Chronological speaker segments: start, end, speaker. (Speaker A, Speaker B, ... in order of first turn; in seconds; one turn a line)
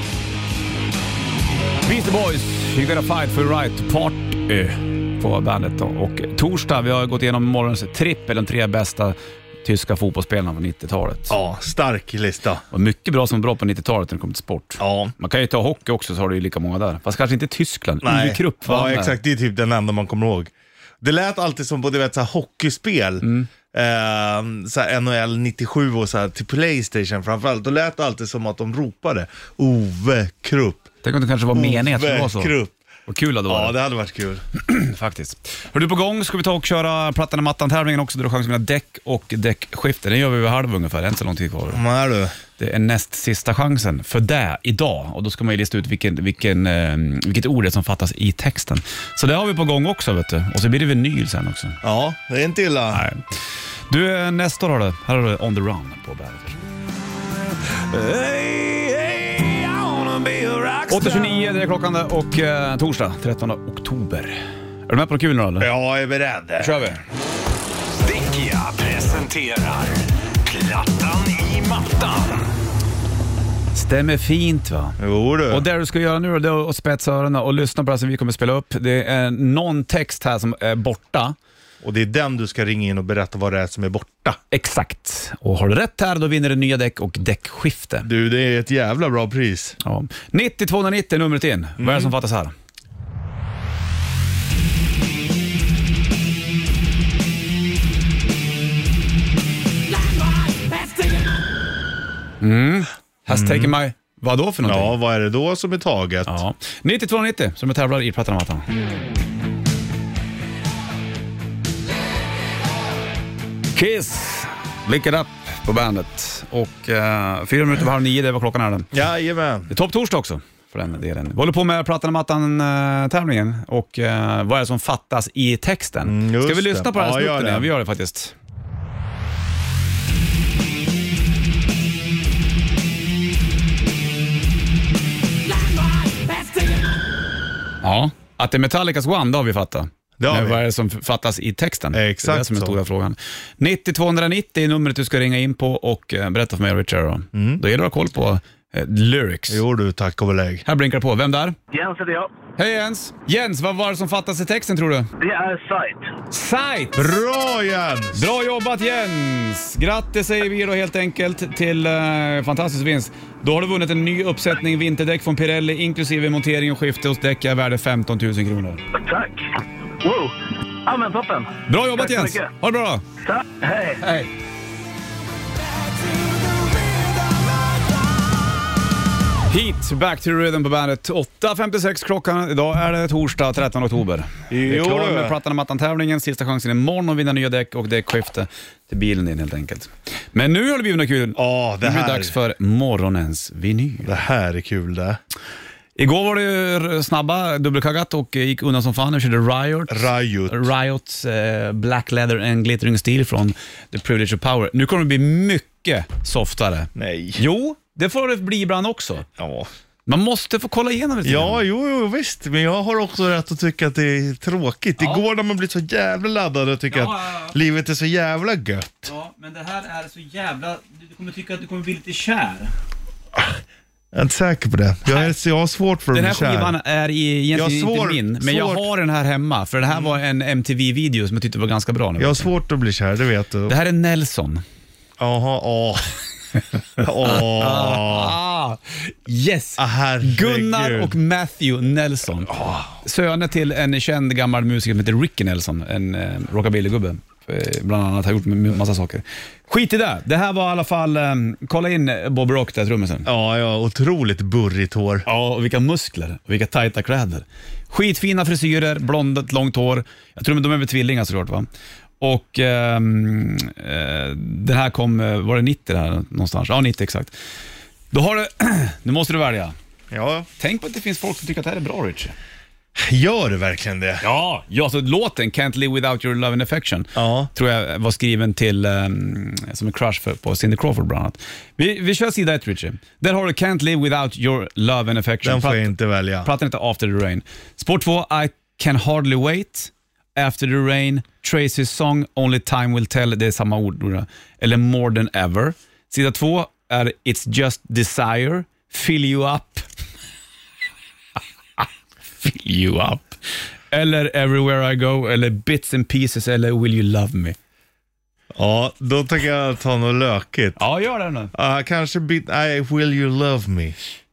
Speaker A: 1.8-11.4
Speaker B: 11.3-12.6
Speaker A: 12.7-19.1
Speaker B: 14.8-15.1
Speaker B: 18.0-30.9
Speaker A: 23.2-23.5
Speaker A: 31.0-32.5
Speaker B: 31.5-32.8
Speaker A: 33.1-33.8
Speaker B: 33.5-34.4
Speaker A: 34.6-41.8
Speaker B: 41.7-42.3
Speaker A: 42.6-51.8
Speaker B: 51.8-53.1
Speaker A: 52.9-53.2
Speaker A: 53.9-56.6
Speaker C: 57.9-58.9
Speaker C: 59.4-60.9
Speaker A: 60.9-65.7
Speaker B: 65.6-66.8
Speaker A: 66.6-67.0
Speaker C: 68.0-72.3
Speaker A: 73.7-75.0
Speaker B: 75.0-75.7
Speaker A: 75.5-81.4
Speaker B: 81.8-84.4
Speaker A: 84.5-88.1
Speaker B: 88.0-89.8
Speaker A: 89.8-92.5
Speaker B: 91.8-92.1
Speaker A: 100.6-101.2
Speaker A: 102.4-105.0
Speaker B: 103.3-103.8
Speaker B: 104.6-106.4
Speaker A: 106.3-108.7
Speaker A: 113.7-118.9
Speaker B: 118.9-119.7
Speaker A: 119.7-128.3
Speaker B: 126.0-127.7
Speaker A: 136.2-136.8
Speaker A: 137.8-149.6
Speaker B: 140.2-140.6
Speaker B: 141.9-142.8
Speaker B: 147.3-147.6
Speaker B: 149.5-150.6
Speaker A: 150.7-151.6
Speaker D: 151.7-152.3
Speaker A: 152.6-155.1
Speaker D: 155.2-156.1
Speaker A: 156.3-157.1
Speaker B: 156.9-158.3
Speaker A: 158.1-168.8
Speaker D: 168.9-170.3
Speaker D: 170.9-172.5
Speaker A: 171.7-173.0
Speaker D: 173.2-174.0
Speaker A: 174.0-174.3
Speaker A: 179.5-194.1
Speaker B: 184.5-185.4
Speaker B: 191.4-192.4
Speaker B: 194.0-195.2
Speaker A: 196.0-209.3
Speaker B: 199.9-200.7
Speaker B: 207.0-207.4
Speaker B: 209.4-209.7
Speaker A: 210.1-211.6
Speaker B: 211.2-219.1
Speaker A: 216.9-217.6
Speaker A: 219.1-222.7
Speaker B: 224.1-226.8
Speaker A: 225.1-225.3
Speaker A: 226.1-232.5
Speaker B: 227.5-228.9
Speaker B: 232.2-233.8
Speaker A: 233.7-234.6
Speaker B: 235.2-236.2
Speaker B: 237.0-238.4
Speaker A: 237.3-253.3
Speaker B: 239.8-241.2
Speaker B: 253.2-255.3
Speaker A: 255.3-261.7
Speaker A: 262.2-267.3
Speaker A: 268.1-269.8
Speaker B: 270.1-270.5
Speaker A: 270.6-272.4
Speaker B: 273.0-274.2
Speaker A: 274.2-299.9
Speaker B: 277.1-277.5
Speaker B: 285.4-286.5
Speaker A: 302.4-303.4
Speaker A: 303.9-307.6
Speaker B: 308.6-310.8
Speaker A: 310.8-311.5
Speaker B: 311.5-314.0